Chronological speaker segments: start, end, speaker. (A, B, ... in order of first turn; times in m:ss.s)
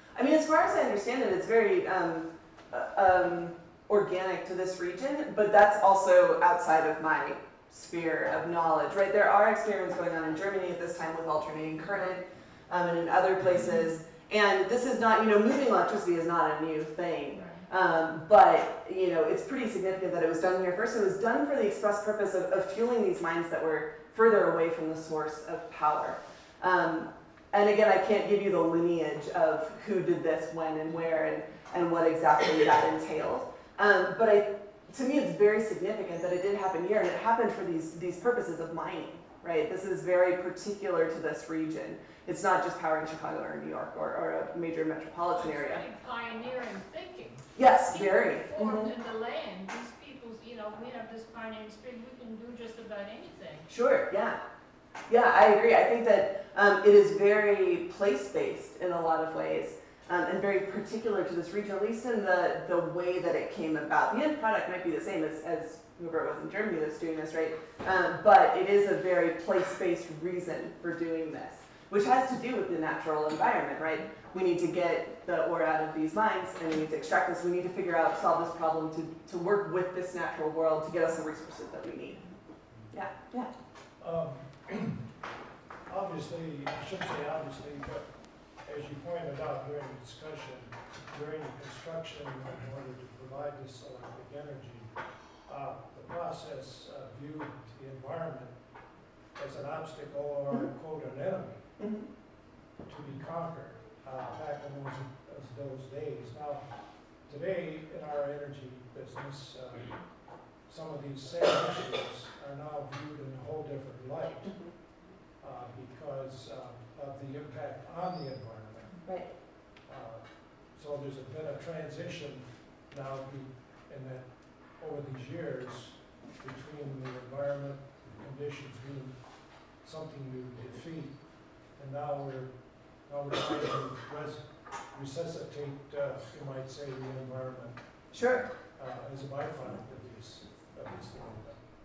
0:00.1-0:45.8 A
0:17.3-0:17.6 B
0:45.3-0:53.7 B
0:47.6-0:48.9 A
0:53.7-0:54.4 A
0:55.1-1:22.2 A
1:22.9-1:23.5 A
1:24.0-1:25.0 C
1:25.9-1:28.1 C
1:28.6-1:34.9 C
1:35.4-1:38.6 C
1:39.3-1:41.6 C
1:41.8-1:42.0 A
1:42.8-1:46.7 C
1:47.2-1:54.7 C
1:54.4-1:54.7 A
1:55.4-1:59.0 C
1:59.0-1:59.3 A
1:59.8-2:17.8 C
2:18.1-2:18.5 A
2:18.7-2:21.6 C